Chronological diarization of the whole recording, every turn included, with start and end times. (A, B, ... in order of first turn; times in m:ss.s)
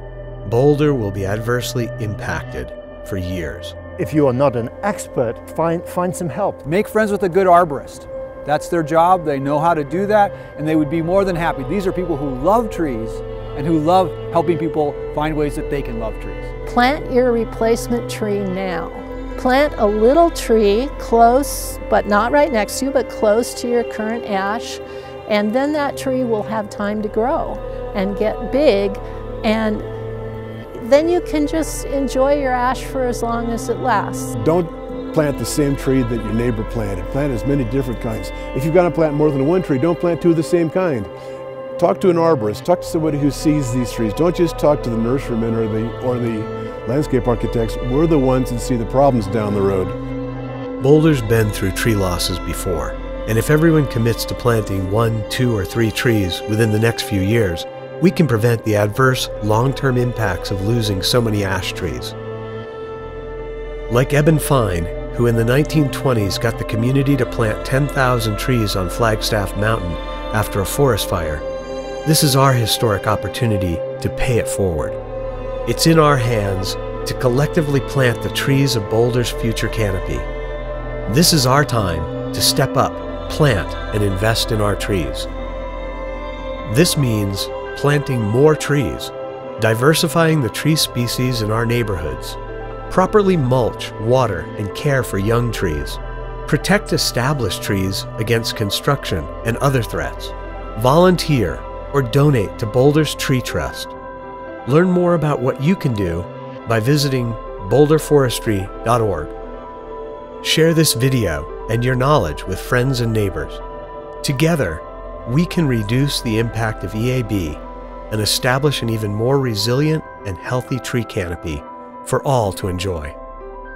0:00.4-0:03.8 A
0:04.0-0:06.6 B
0:06.6-0:16.5 C
0:16.6-0:29.9 D
0:30.8-0:34.3 D
0:34.3-0:41.1 E
0:41.8-0:50.0 E
0:50.8-1:02.2 A
1:03.9-1:11.4 A
1:12.0-1:15.0 A
1:15.6-1:20.3 A
1:21.0-1:25.3 A
1:26.6-1:43.9 A
1:44.6-1:49.3 A
1:50.4-1:53.6 A
1:54.2-2:03.2 A